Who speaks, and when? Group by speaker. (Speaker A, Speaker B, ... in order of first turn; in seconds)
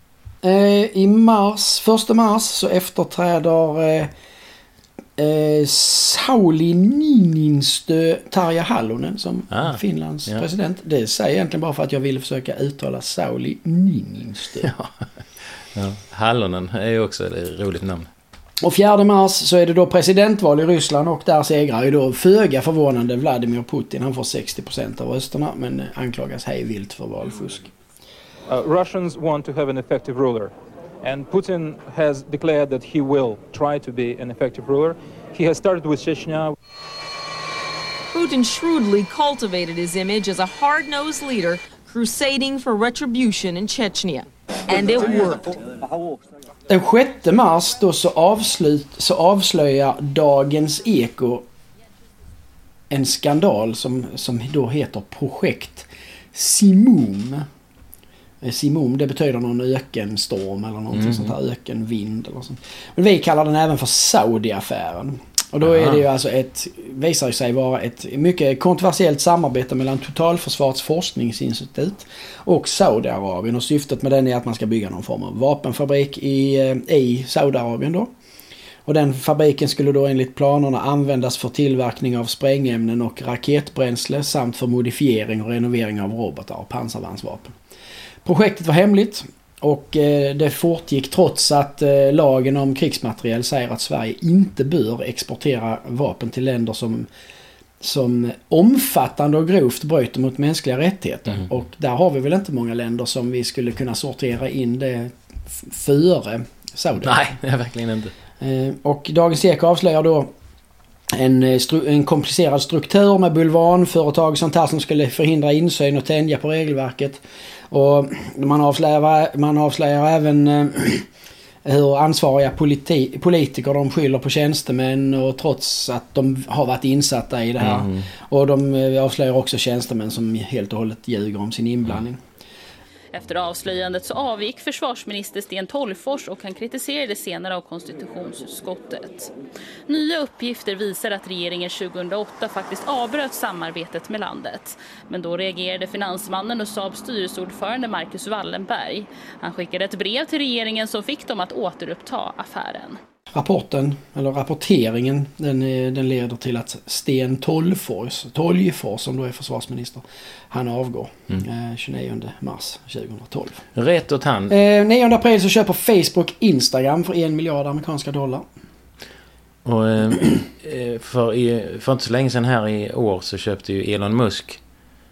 Speaker A: 0.4-4.1, 5.2-14.7, 18.6-27.7, 46.7-51.4, 52.9-57.5, 58.4-78.1, 78.8-87.5, 88.2-97.1, 97.8-107.2, 108.4-110.3, 111.1-121.1, 121.6-132.2, 153.3-163.6, 164.5-168.4
Speaker B: 9.5-10.4, 14.6-14.9, 15.6-18.1, 60.9-61.3, 65.6-66.0, 107.0-108.1, 127.6-128.1, 163.7-164.5, 169.6-174.6
Speaker C: 28.5-36.5
Speaker D: 38.1-45.6
Speaker E: 133.1-139.3, 139.9-153.0